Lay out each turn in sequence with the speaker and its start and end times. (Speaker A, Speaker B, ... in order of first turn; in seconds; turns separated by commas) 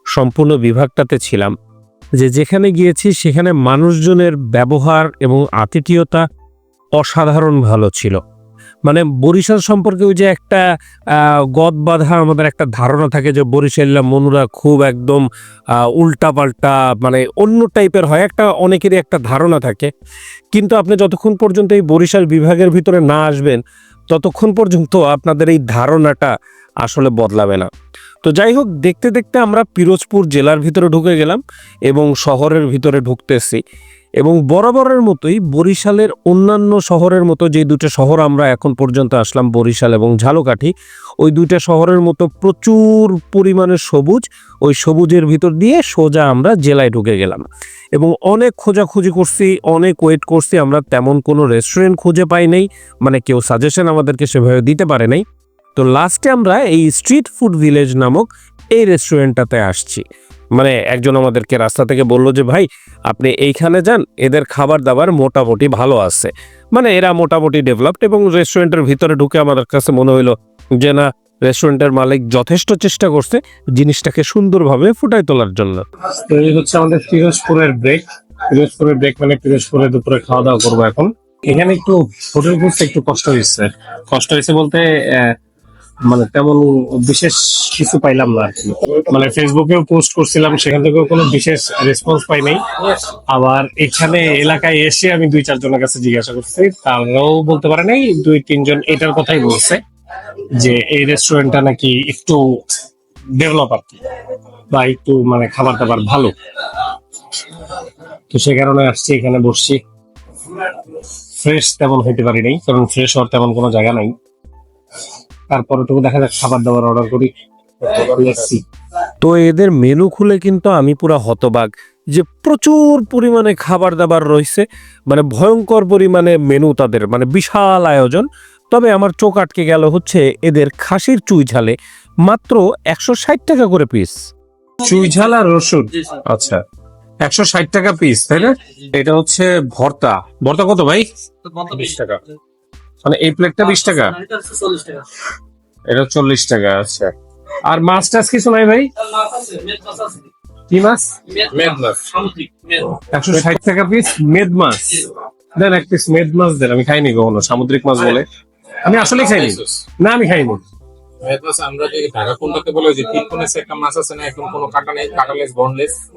Speaker A: 0.1-1.5, Speaker A: 2.2-6.2, Speaker A: 7.0-8.2, Speaker A: 8.9-15.2, Speaker A: 15.8-19.9, Speaker A: 20.5-26.3, Speaker A: 26.8-27.7, Speaker A: 28.2-33.6, Speaker A: 34.2-47.4, Speaker A: 48.0-55.2, Speaker A: 55.8-60.0, Speaker A: 60.6-75.8, Speaker B: 76.2-85.3, Speaker B: 86.1-99.8, Speaker B: 100.5-102.6, Speaker B: 103.3-103.9, Speaker B: 104.7-106.3, Speaker B: 108.3-109.8, Speaker B: 111.3-114.1, Speaker B: 115.5-117.3, Speaker B: 117.8-118.6, Speaker A: 119.2-134.2, Speaker B: 134.8-136.6, Speaker B: 137.2-142.2, Speaker B: 143.0-145.0, Speaker B: 145.9-147.1, Speaker B: 147.7-150.1, Speaker B: 150.7-151.7, Speaker C: 151.4-152.4, Speaker B: 153.1-158.2, Speaker B: 158.8-160.6, Speaker C: 161.2-166.0